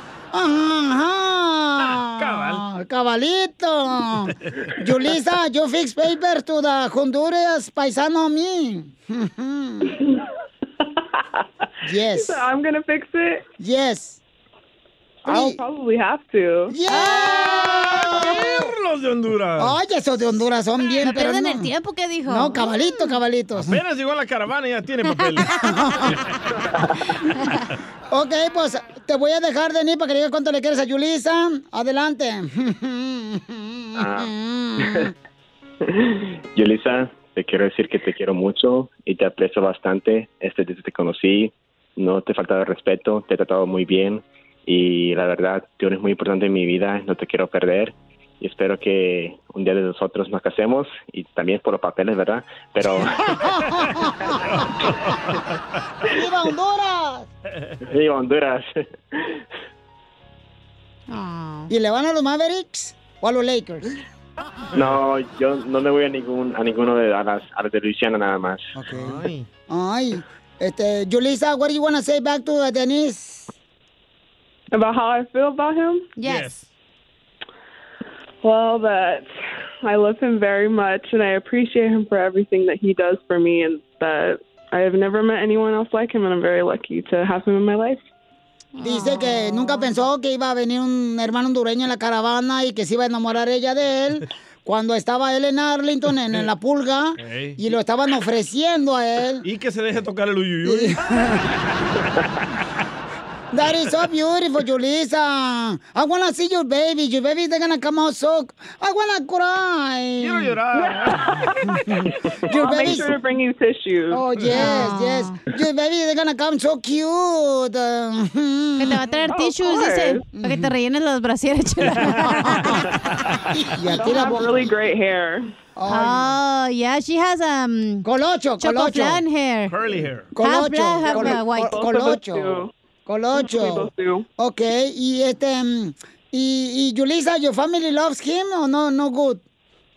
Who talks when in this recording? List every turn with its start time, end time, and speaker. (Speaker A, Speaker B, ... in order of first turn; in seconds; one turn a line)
Speaker A: 0.3-10.0
Speaker B: 1.8-2.6
Speaker C: 9.9-10.2
Speaker A: 11.8-12.4
Speaker C: 12.1-13.4
Speaker A: 13.6-14.2
Speaker A: 15.2-15.6
Speaker C: 15.2-16.8
Speaker A: 16.7-18.7
Speaker D: 16.9-18.0
Speaker B: 17.7-19.8
Speaker A: 19.6-21.7
Speaker D: 21.0-23.1
Speaker A: 22.3-23.8
Speaker B: 23.6-25.5
Speaker A: 25.6-26.1
Speaker A: 28.1-35.1
Speaker E: 34.0-35.1
Speaker E: 35.9-53.5
Speaker A: 53.3-54.3
Speaker B: 54.5-55.5
Speaker A: 56.1-57.3
Speaker E: 57.9-59.4
Speaker D: 61.1-61.7
Speaker A: 61.7-63.9
Speaker E: 64.7-68.6
Speaker A: 68.7-73.5
Speaker B: 68.9-69.5
Speaker C: 74.7-76.1
Speaker D: 76.2-76.5
Speaker B: 76.2-76.7
Speaker C: 78.4-79.3
Speaker C: 79.8-88.0
Speaker D: 88.7-89.9
Speaker A: 88.8-99.5
Speaker B: 97.2-97.6
Speaker B: 99.4-102.0
Speaker A: 100.6-101.4
Speaker A: 103.5-110.5
Speaker B: 110.2-111.4
Speaker A: 111.7-113.1
Speaker C: 112.5-114.2
Speaker A: 114.1-119.0
Speaker D: 114.5-115.4
Speaker D: 118.8-123.0
Speaker C: 119.3-120.2
Speaker A: 120.3-120.7
Speaker B: 121.8-122.6
Speaker A: 123.5-124.7
Speaker C: 124.0-125.5
Speaker A: 125.8-126.3
Speaker D: 125.9-128.1
Speaker A: 128.0-129.2
Speaker D: 128.6-129.7
Speaker B: 129.7-130.3
Speaker A: 130.3-139.4
Speaker D: 130.4-131.7
Speaker C: 131.1-132.7
Speaker C: 133.3-134.2